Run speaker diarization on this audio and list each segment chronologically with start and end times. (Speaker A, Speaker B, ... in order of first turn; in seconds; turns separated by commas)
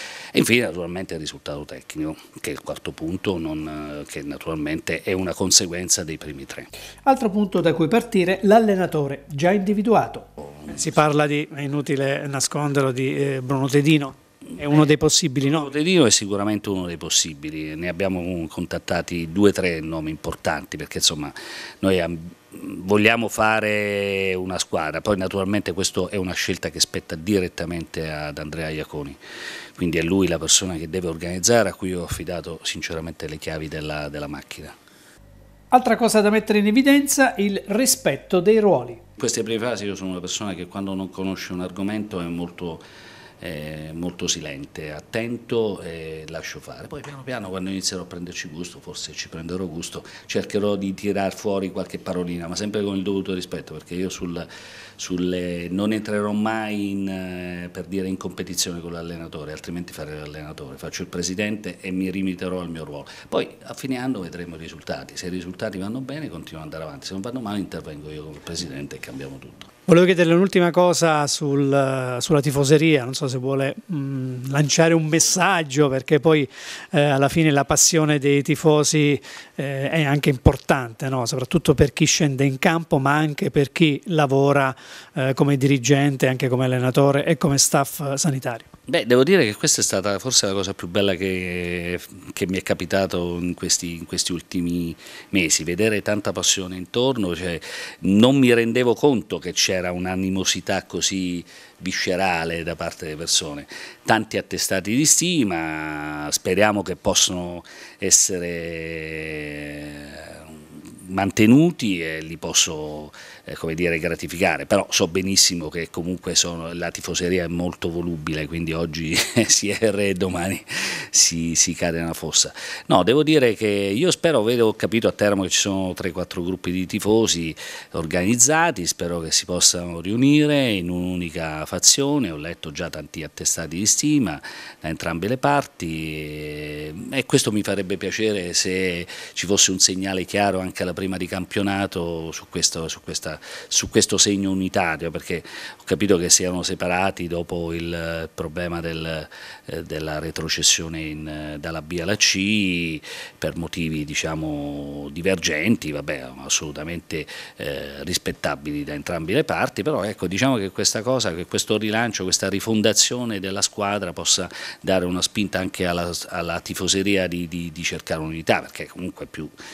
Speaker A: 0.3-6.7, Speaker B: 7.0-15.7, Speaker A: 10.4-10.8, Speaker A: 15.4-29.2, Speaker A: 29.8-34.7, Speaker B: 35.7-39.0, Speaker A: 39.2-42.8, Speaker A: 43.4-69.7, Speaker B: 69.9-88.7, Speaker A: 88.9-169.5